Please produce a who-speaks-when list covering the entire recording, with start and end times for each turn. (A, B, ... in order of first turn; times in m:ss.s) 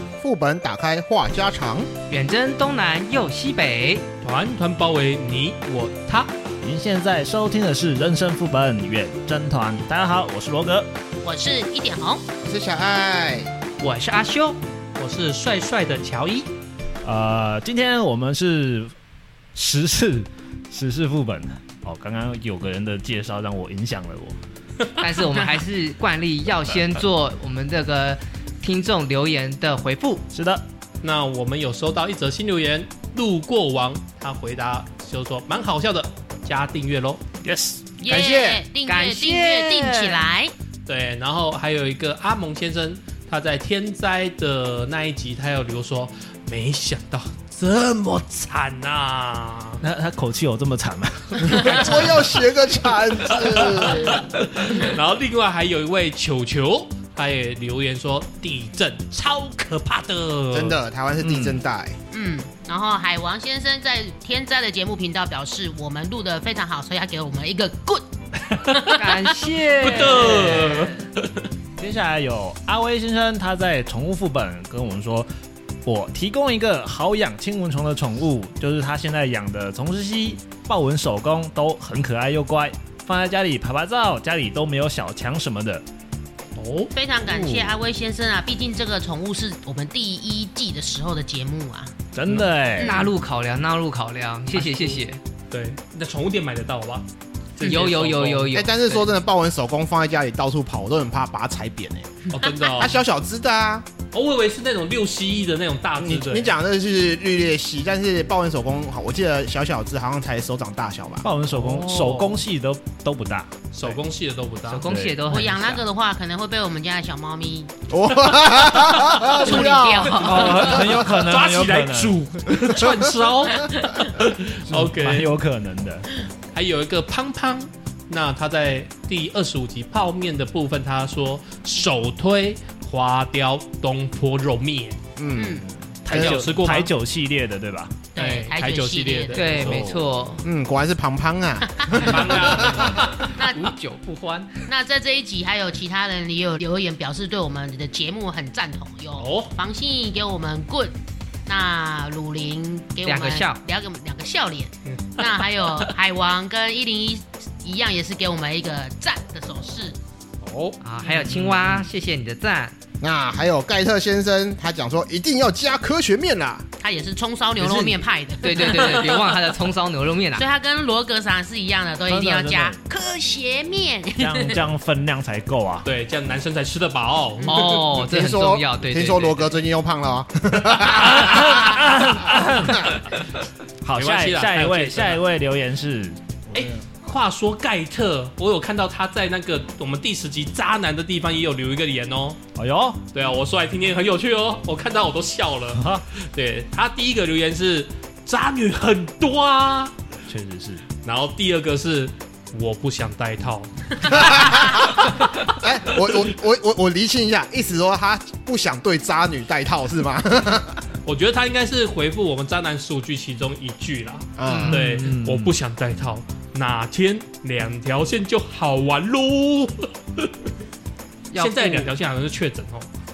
0:00.2-0:01.9 A
0:02.1-0:04.0 B
0:04.2-0:06.3 C
0:06.6-0:10.9 D
0:11.2-0:12.2 E
0:12.4-0:13.5 A
0:13.8-0:14.6 B
0:15.0-0:16.5 C
0:17.0-0:18.9 D
0:19.6-0:24.4 D
0:25.0-0:30.2 B
0:30.3-0:30.6 D
0:31.0-0:37.2 C
0:37.4-0:37.8 D
0:38.0-0:40.5 E
0:38.1-0:38.7 A
0:38.8-0:40.3 B
0:40.8-0:49.8 C
0:49.8-0:52.3 D
0:51.5-0:54.2 A
0:53.4-1:00.8 C
1:00.5-1:02.0 A
1:01.2-1:01.6 D
1:02.1-1:09.3 E
1:08.8-1:11.0 B
1:09.8-1:11.5 C
1:11.8-1:15.3 D
1:15.8-1:25.8 D
1:26.6-1:26.9 C
1:26.9-1:31.9 E
1:27.2-1:27.8 D
1:32.1-1:33.1 D
1:32.8-1:35.2 B
1:32.8-1:33.1 E
1:34.5-1:38.6 C
1:37.6-1:39.1 B
1:38.5-1:43.8 A
1:42.3-1:43.0 C
1:44.1-1:46.5 C
1:46.0-1:51.3 A
1:51.2-1:53.6 D
1:51.5-1:52.4 C
1:53.7-1:54.9 C
1:54.7-1:55.8 B
1:54.8-1:55.2 D
1:55.3-1:57.7 E
1:57.9-2:00.8 A
1:59.2-2:00.8 E
2:00.1-2:02.8 D
2:00.3-2:05.3 C
2:04.4-2:06.1 D
2:06.5-2:15.0 C
2:15.2-2:16.5 A
2:15.3-2:15.7 E
2:16.0-2:18.0 D
2:16.1-2:16.9 C
2:18.1-2:19.5 E
2:18.2-2:20.0 C
2:19.3-2:20.4 B
2:19.5-2:20.1 D
2:20.4-2:23.0 A
2:21.7-2:22.3 E
2:21.9-2:23.4 C
2:22.8-2:24.7 B
2:23.3-2:23.7 E
2:24.7-2:40.0 E
2:29.2-2:29.5 C
2:33.0-2:33.6 B
2:34.9-2:35.8 C
2:40.4-2:41.5 C
2:40.8-2:42.8 B
2:43.0-2:46.7 A
2:46.8-2:49.5 E
2:47.6-2:50.4 B
2:50.4-2:54.6 E
2:52.1-2:52.8 D
2:54.2-2:55.9 D
2:55.8-2:57.6 C
2:57.4-2:57.7 E
2:57.4-2:59.5 B
2:57.7-3:01.8 A
3:00.8-3:03.2 D
3:03.8-3:06.2 D
3:04.0-3:05.2 C
3:06.5-3:06.8 A
3:06.5-3:12.4 C
3:12.5-3:13.0 D
3:13.1-3:19.9 C
3:15.8-3:16.1 D
3:20.3-3:20.8 D
3:21.0-3:25.3 C
3:24.1-3:30.8 A
3:31.0-3:40.3 C
3:34.4-3:34.8 A
3:34.5-3:34.8 B
3:34.5-3:35.5 D
3:41.3-3:41.9 B
3:41.3-3:42.9 C